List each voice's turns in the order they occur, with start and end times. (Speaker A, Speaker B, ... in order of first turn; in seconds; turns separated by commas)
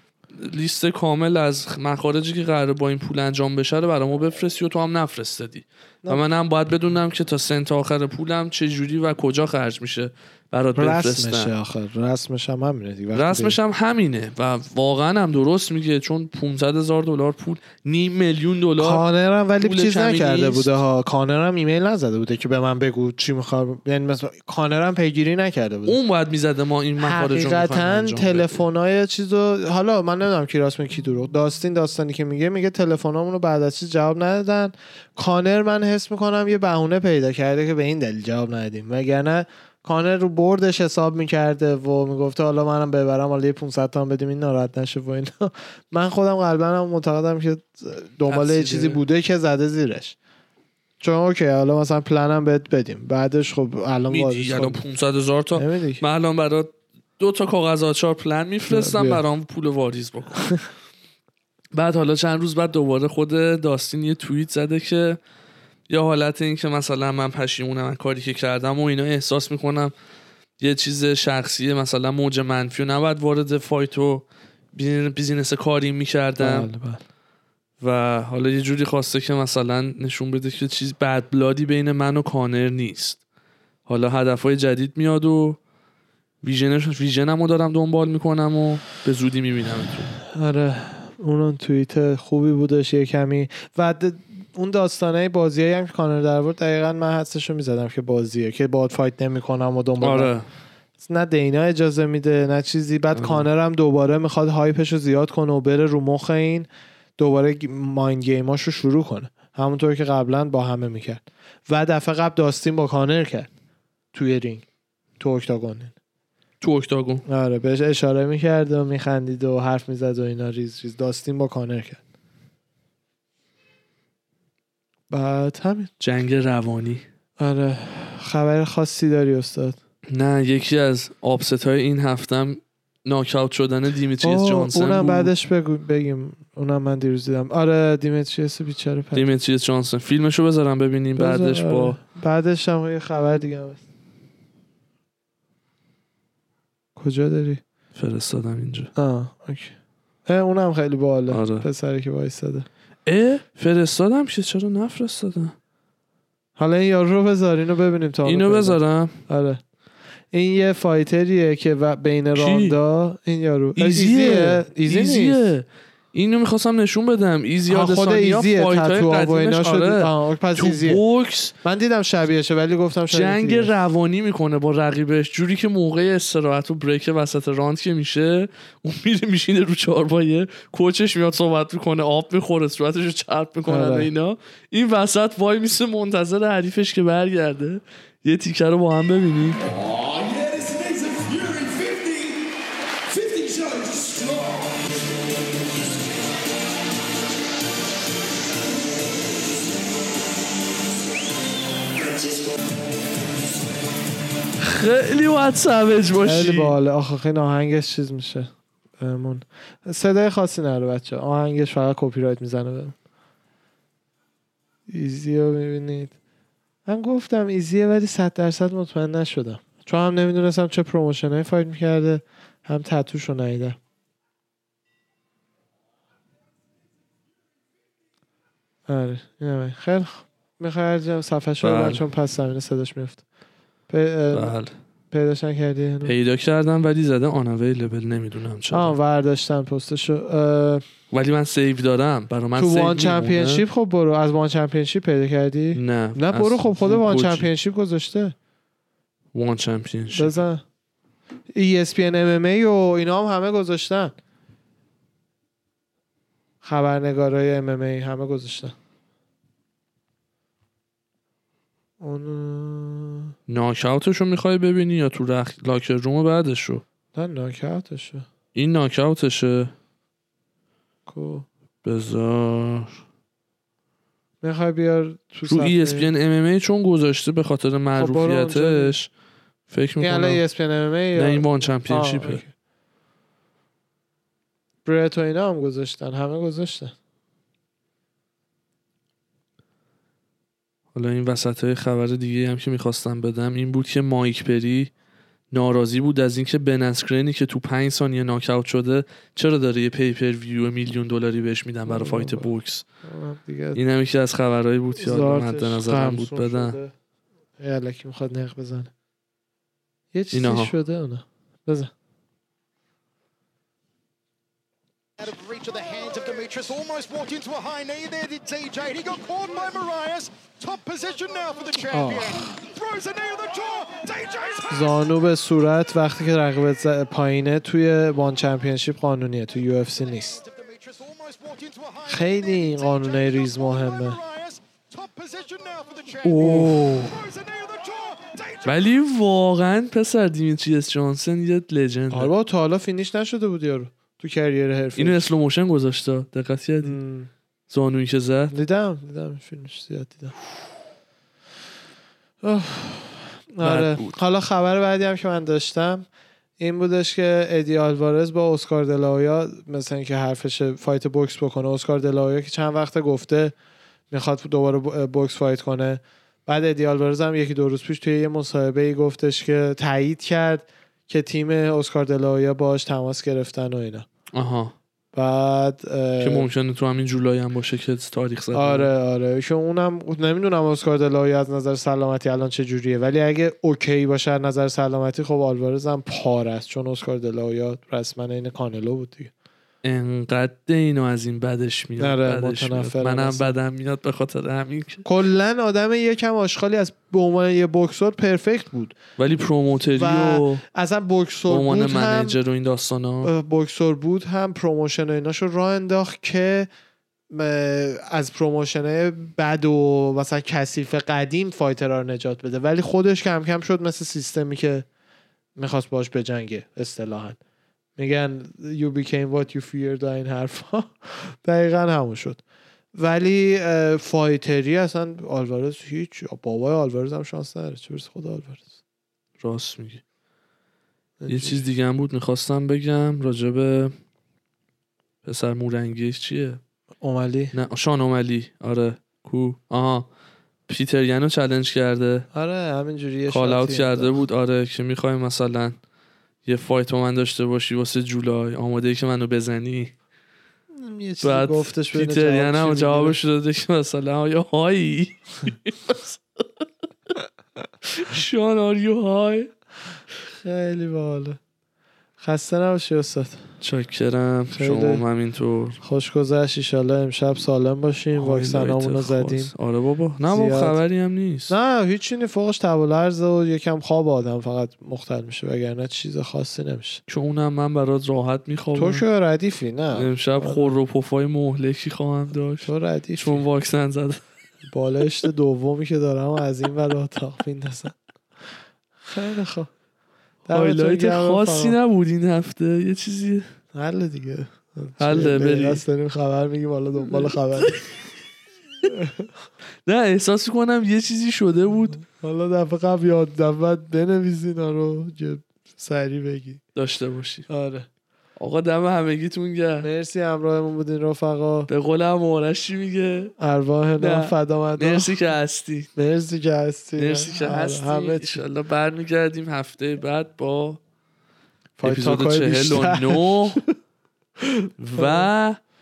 Speaker A: 0.3-11.5, Speaker B: 6.0-6.3, Speaker B: 10.8-13.6, Speaker A: 13.1-19.0, Speaker B: 18.8-26.0, Speaker A: 19.6-20.8, Speaker A: 25.9-28.6, Speaker B: 27.0-50.1, Speaker A: 48.3-49.0, Speaker B: 51.0-54.8, Speaker A: 54.1-60.5, Speaker B: 55.5-56.0, Speaker B: 58.7-59.2, Speaker B: 60.3-60.6, Speaker A: 61.7-65.2, Speaker A: 65.9-69.9, Speaker A: 70.6-76.7, Speaker B: 76.4-77.0, Speaker A: 77.8-83.2, Speaker A: 83.9-85.6, Speaker A: 86.4-90.1, Speaker B: 90.3-100.3, Speaker A: 100.0-100.5, Speaker B: 101.0-113.5, Speaker A: 103.1-103.5, Speaker B: 114.1-114.6, Speaker B: 115.2-115.9, Speaker A: 116.6-117.2, Speaker B: 117.2-122.0, Speaker B: 125.1-125.9, Speaker A: 126.0-127.0, Speaker B: 127.4-129.8, Speaker A: 130.1-135.3, Speaker B: 134.2-139.3, Speaker A: 139.1-142.0, Speaker B: 141.2-143.8, Speaker B: 146.9-147.6, Speaker A: 147.9-148.9, Speaker B: 148.9-149.7, Speaker B: 150.2-152.7, Speaker A: 151.3-151.7, Speaker A: 153.1-155.6, Speaker B: 156.6-159.6, Speaker A: 158.2-159.2, Speaker B: 160.3-165.5, Speaker A: 162.3-162.8, Speaker A: 163.8-171.5, Speaker B: 167.7-171.0, Speaker B: 171.6-173.8, Speaker A: 173.1-189.6, Speaker B: 183.7-184.1, Speaker C: 190.1-192.1, Speaker D: 190.9-192.4, Speaker C: 193.1-194.1, Speaker D: 193.2-194.6, Speaker A: 204.6-206.7, Speaker B: 206.2-212.9, Speaker B: 214.9-216.1, Speaker B: 216.8-223.8, Speaker B: 228.9-233.2, Speaker A: 231.6-232.0, Speaker B: 233.9-234.6, Speaker A: 234.3-234.7, Speaker B: 235.1-236.1, Speaker A: 236.0-238.9, Speaker B: 238.7-240.8, Speaker A: 241.1-243.6, Speaker B: 242.6-248.3, Speaker A: 245.7-247.5, Speaker A: 249.3-250.4, Speaker B: 250.1-250.6, Speaker B: 251.5-254.1, Speaker B: 256.6-258.7, Speaker B: 262.0-263.3, Speaker A: 263.5-266.8, Speaker B: 267.1-268.2, Speaker A: 268.5-269.7, Speaker B: 271.1-271.5, Speaker A: 271.8-273.0, Speaker B: 274.4-276.1, Speaker A: 275.4-279.1, Speaker B: 277.9-278.9, Speaker A: 279.7-280.4, Speaker B: 280.0-282.5, Speaker A: 281.1-282.4, Speaker B: 284.8-286.9, Speaker A: 290.9-294.9, Speaker A: 295.5-302.9, Speaker B: 301.9-302.5, Speaker B: 303.0-303.8, Speaker A: 303.7-306.8, Speaker B: 304.9-306.9, Speaker B: 307.6-308.9, Speaker B: 310.1-311.9, Speaker A: 310.3-310.7, Speaker C: 315.2-325.0, Speaker B: 321.9-322.4, Speaker B: 324.7-330.4, Speaker C: 330.1-338.8, Speaker B: 332.1-334.2, Speaker A: 336.2-336.7, Speaker B: 336.3-337.2, Speaker A: 338.6-342.3, Speaker B: 342.1-345.2, Speaker A: 344.9-346.9, Speaker B: 346.8-347.3, Speaker A: 347.7-348.5, Speaker B: 348.5-350.3, Speaker B: 352.4-356.1, Speaker A: 353.6-354.2, Speaker B: 356.6-363.5, Speaker B: 364.1-374.1, Speaker A: 374.3-374.7, Speaker B: 375.1-376.5, Speaker A: 376.2-378.9, Speaker B: 378.5-389.3, Speaker A: 389.8-395.1, Speaker B: 392.0-393.5, Speaker B: 395.0-398.9, Speaker A: 399.2-400.6, Speaker B: 399.9-402.4, Speaker A: 401.5-403.3, Speaker B: 403.2-406.7, Speaker B: 407.3-414.9, Speaker B: 415.6-417.4, Speaker B: 418.0-422.4, Speaker B: 422.9-428.7, Speaker A: 429.4-430.0, Speaker B: 431.2-431.6, Speaker A: 431.3-433.9, Speaker A: 435.2-436.6, Speaker B: 437.0-437.5, Speaker A: 437.5-440.1, Speaker A: 440.7-442.2, Speaker B: 442.3-444.1, Speaker A: 443.3-445.8, Speaker A: 446.4-449.9, Speaker B: 450.7-453.2, Speaker A: 451.2-457.2, Speaker A: 457.9-459.5, Speaker B: 460.3-461.4, Speaker B: 462.2-463.5, Speaker A: 463.6-465.8, Speaker B: 464.5-465.0, Speaker B: 465.8-469.5, Speaker A: 468.1-471.5, Speaker B: 470.2-470.8, Speaker B: 471.5-477.0, Speaker A: 477.1-479.0, Speaker B: 478.7-480.8, Speaker A: 479.9-484.2, Speaker B: 482.6-483.4, Speaker B: 484.7-487.9, Speaker B: 489.0-489.7, Speaker B: 490.5-491.8, Speaker A: 490.5-493.4, Speaker B: 493.7-497.8, Speaker A: 495.0-495.8, Speaker B: 498.9-499.3, Speaker A: 499.9-502.0, Speaker B: 501.9-506.6, Speaker A: 506.7-507.5, Speaker B: 507.5-507.9, Speaker A: 508.4-509.9, Speaker B: 509.8-511.7, Speaker A: 511.7-513.3, Speaker B: 513.4-515.2, Speaker A: 514.0-515.9, Speaker B: 516.0-518.4, Speaker A: 517.0-520.8, Speaker B: 521.8-523.7, Speaker A: 521.8-523.6, Speaker B: 524.4-525.3, Speaker A: 524.8-525.6